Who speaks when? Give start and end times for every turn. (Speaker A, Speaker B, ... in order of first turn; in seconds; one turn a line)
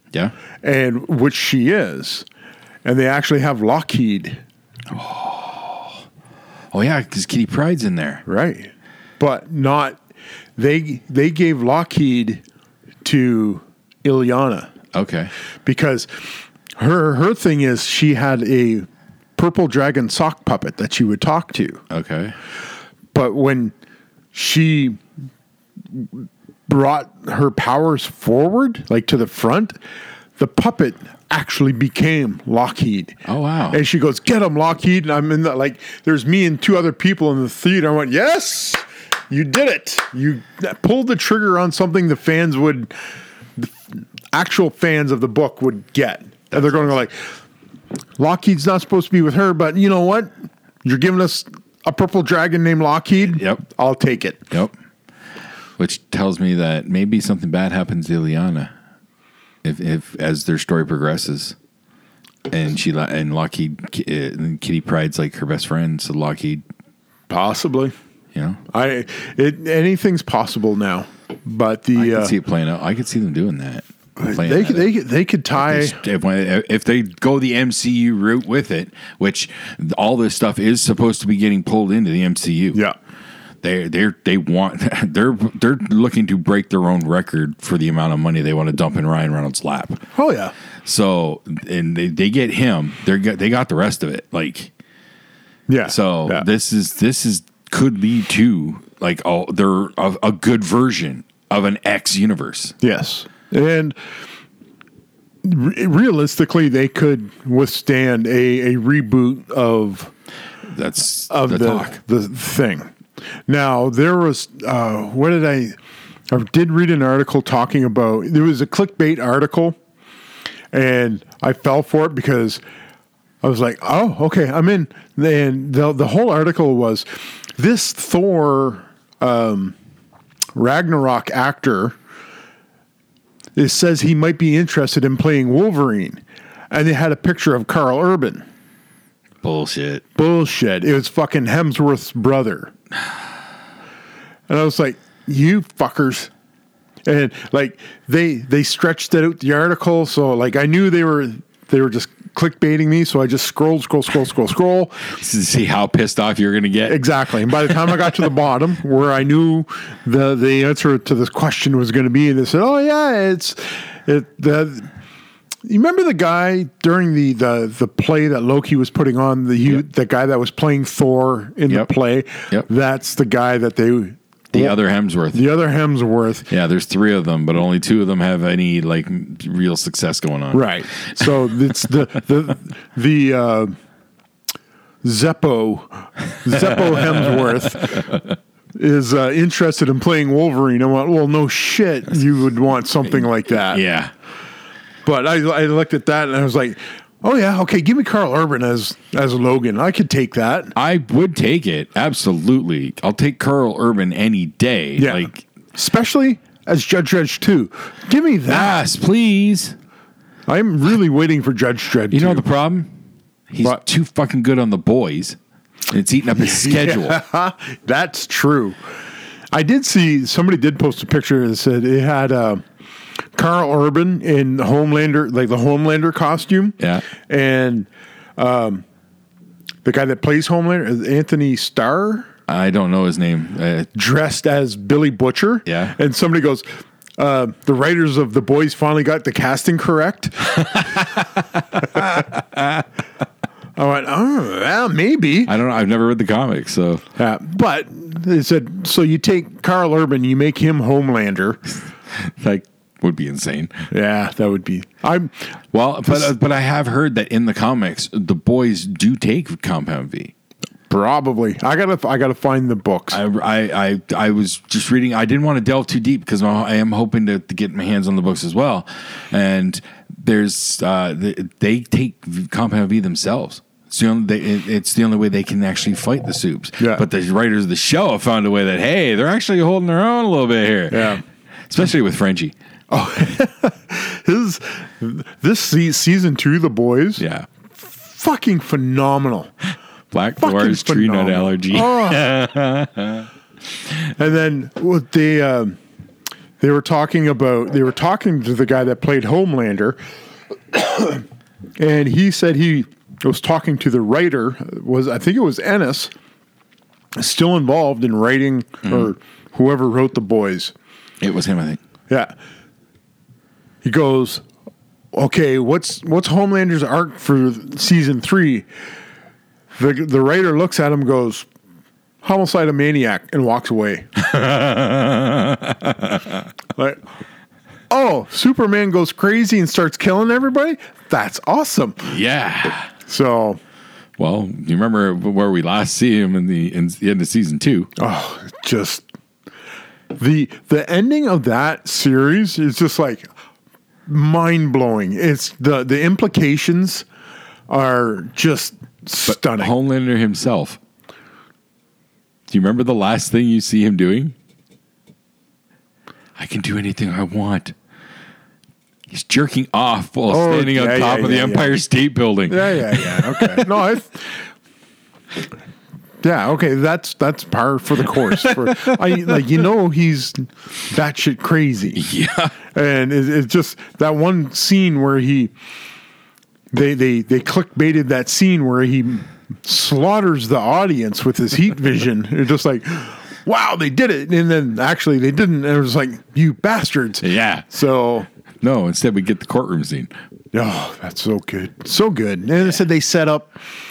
Speaker A: 0.6-2.2
Speaker A: 2.8-4.4
Speaker B: 4.9-6.0
Speaker B: 6.7-8.2
Speaker A: 8.3-10.0
Speaker A: 10.6-12.4
Speaker A: 13.0-14.7
Speaker B: 14.9-15.3
Speaker A: 15.7-16.1
Speaker A: 16.8-21.8
Speaker B: 21.9-22.4
Speaker A: 23.1-23.7
Speaker A: 24.3-25.0
Speaker A: 25.9-29.8
Speaker A: 30.4-33.2
Speaker B: 33.3-33.8
Speaker A: 33.7-42.9
Speaker A: 44.3-47.3
Speaker B: 46.5-46.9
Speaker A: 48.2-54.4
Speaker B: 53.2-53.6
Speaker B: 55.8-58.7
Speaker B: 59.6-61.6
Speaker B: 62.5-66.6
Speaker A: 67.3-67.9
Speaker B: 68.3-68.6
Speaker A: 68.7-72.3
Speaker B: 72.0-74.9
Speaker A: 74.2-76.0
Speaker B: 75.5-82.8
Speaker B: 83.6-90.0
Speaker A: 90.2-90.5
Speaker B: 90.8-94.7
Speaker A: 95.7-96.5
Speaker B: 95.8-102.8
Speaker A: 102.8-104.0
Speaker A: 105.4-110.1
Speaker B: 110.7-112.0
Speaker A: 111.3-112.9
Speaker A: 113.5-115.8
Speaker A: 116.3-119.8
Speaker A: 120.7-122.6
Speaker A: 123.4-129.8
Speaker A: 130.6-132.0
Speaker A: 133.6-138.4
Speaker B: 139.4-140.0
Speaker A: 140.2-142.7
Speaker A: 144.5-146.3
Speaker A: 147.1-155.1
Speaker B: 155.1-157.9
Speaker A: 156.9-164.9
Speaker A: 165.7-174.8
Speaker B: 174.5-175.4
Speaker A: 175.3-176.5
Speaker B: 176.5-181.5
Speaker A: 180.5-183.8
Speaker A: 185.0-188.1
Speaker B: 186.6-187.5
Speaker A: 188.8-193.8
Speaker B: 193.2-194.1
Speaker A: 195.1-200.8
Speaker B: 200.8-205.4
Speaker A: 205.0-208.8
Speaker B: 208.5-209.8
Speaker A: 210.5-212.5
Speaker B: 212.1-212.9
Speaker B: 213.5-215.4
Speaker B: 215.9-217.2
Speaker A: 216.4-218.8
Speaker A: 219.5-222.6
Speaker A: 223.3-228.8
Speaker B: 226.8-227.1
Speaker A: 229.8-232.3
Speaker B: 232.5-233.9
Speaker A: 233.9-236.7
Speaker B: 235.7-236.0
Speaker A: 237.2-241.1
Speaker A: 241.8-242.3
Speaker A: 243.8-245.5
Speaker B: 245.5-247.1
Speaker A: 247.2-251.6
Speaker B: 252.1-253.9
Speaker A: 253.9-255.5
Speaker B: 255.7-260.3
Speaker A: 260.9-263.2
Speaker B: 263.1-282.5
Speaker A: 276.8-277.0
Speaker A: 280.9-281.2
Speaker A: 282.9-287.2
Speaker B: 287.2-287.5
Speaker A: 287.8-289.5
Speaker B: 290.1-293.3
Speaker A: 290.4-292.3
Speaker A: 294.2-295.8
Speaker A: 296.6-300.0
Speaker A: 300.7-301.2
Speaker A: 301.8-306.1
Speaker A: 307.2-310.7
Speaker B: 308.9-309.1
Speaker B: 311.2-311.8
Speaker A: 313.8-314.4
Speaker A: 315.1-318.7
Speaker A: 319.8-321.5
Speaker A: 322.2-324.1
Speaker B: 324.2-326.4
Speaker A: 326.8-327.0
Speaker A: 327.9-332.1
Speaker B: 332.1-332.9
Speaker A: 333.1-333.6
Speaker B: 334.2-337.9
Speaker A: 338.0-339.1
Speaker A: 340.1-343.3
Speaker A: 344.1-347.1
Speaker A: 347.7-349.7
Speaker B: 349.3-350.8
Speaker B: 352.5-354.4
Speaker B: 356.4-357.8
Speaker B: 359.1-363.7
Speaker A: 360.3-361.8
Speaker A: 362.5-364.4
Speaker A: 366.2-372.0
Speaker B: 368.3-369.3
Speaker B: 371.9-372.6
Speaker A: 372.7-375.5
Speaker A: 376.7-388.3
Speaker B: 387.2-387.7
Speaker B: 388.6-390.1
Speaker A: 390.5-393.6